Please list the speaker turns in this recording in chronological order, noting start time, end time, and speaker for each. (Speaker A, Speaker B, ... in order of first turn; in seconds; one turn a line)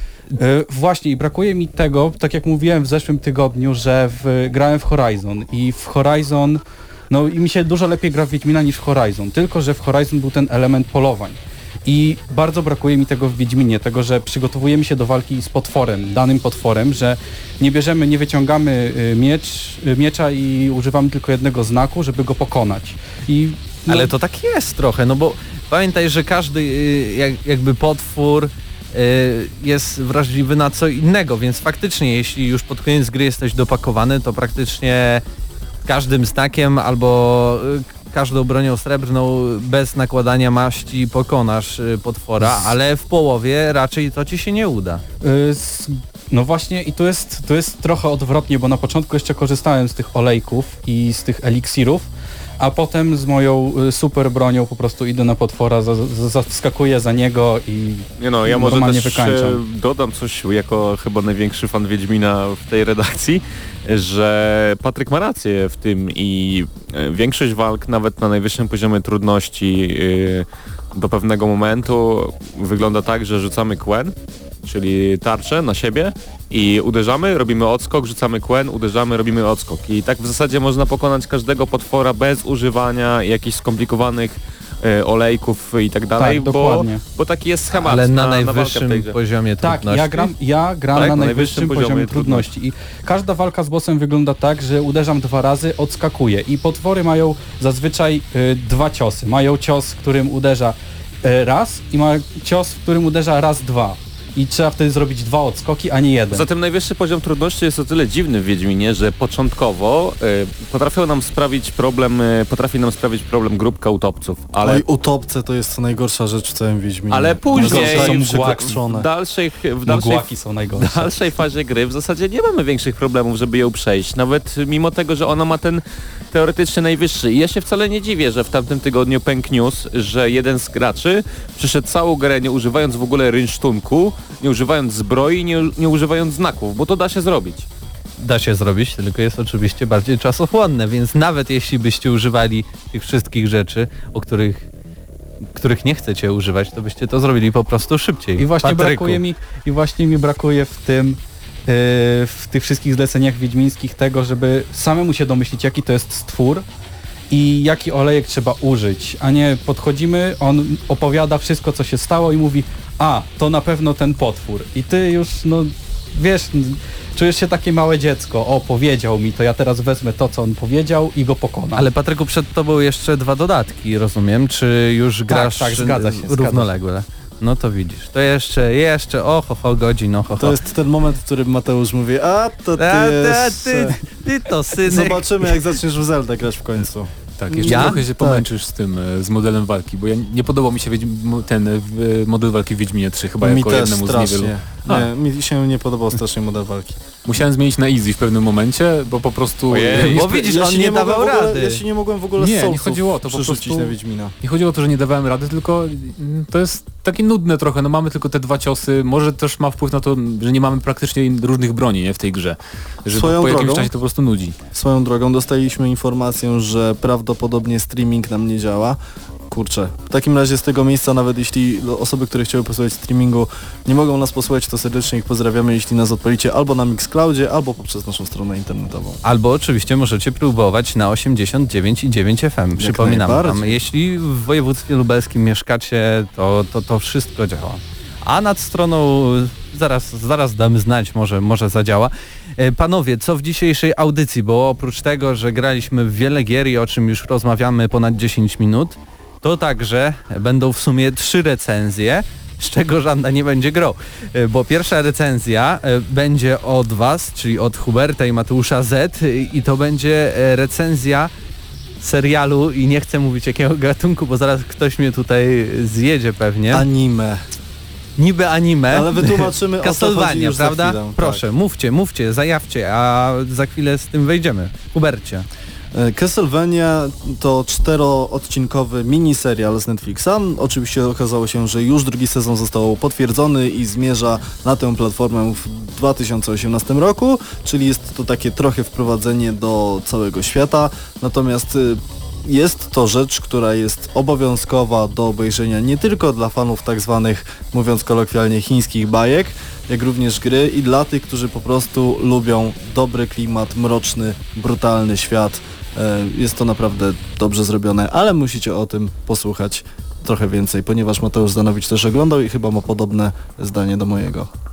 Speaker A: 0.3-24.1
Speaker B: 23.9-35.2
Speaker B: 35.9-45.0
Speaker A: 45.2-59.6
Speaker C: 58.2-89.2
Speaker A: 86.2-87.0
Speaker B: 87.7-90.3
Speaker A: 89.6-106.5
Speaker C: 90.9-92.5
Speaker C: 106.3-114.8
Speaker D: 114.6-119.1
Speaker C: 117.1-137.7
Speaker A: 117.5-118.8
Speaker A: 119.8-121.1
Speaker B: 138.2-144.7
Speaker B: 145.5-149.2
Speaker A: 148.4-156.7
Speaker A: 157.3-171.9
Speaker B: 171.7-180.6
Speaker A: 175.3-176.7
Speaker D: 180.3-184.1
Speaker B: 182.8-185.6
Speaker D: 184.7-188.5
Speaker E: 187.4-195.1
Speaker B: 187.7-188.0
Speaker D: 193.4-197.0
Speaker E: 197.2-200.3
Speaker C: 199.7-200.2
Speaker B: 200.0-201.8
Speaker D: 200.1-204.3
Speaker E: 202.4-214.6
Speaker D: 213.1-213.9
Speaker D: 214.7-229.2
Speaker B: 229.2-261.3
Speaker D: 232.8-233.8
Speaker B: 262.0-266.9
Speaker D: 266.7-267.4
Speaker B: 268.2-275.5
Speaker D: 268.9-271.4
Speaker D: 275.9-314.5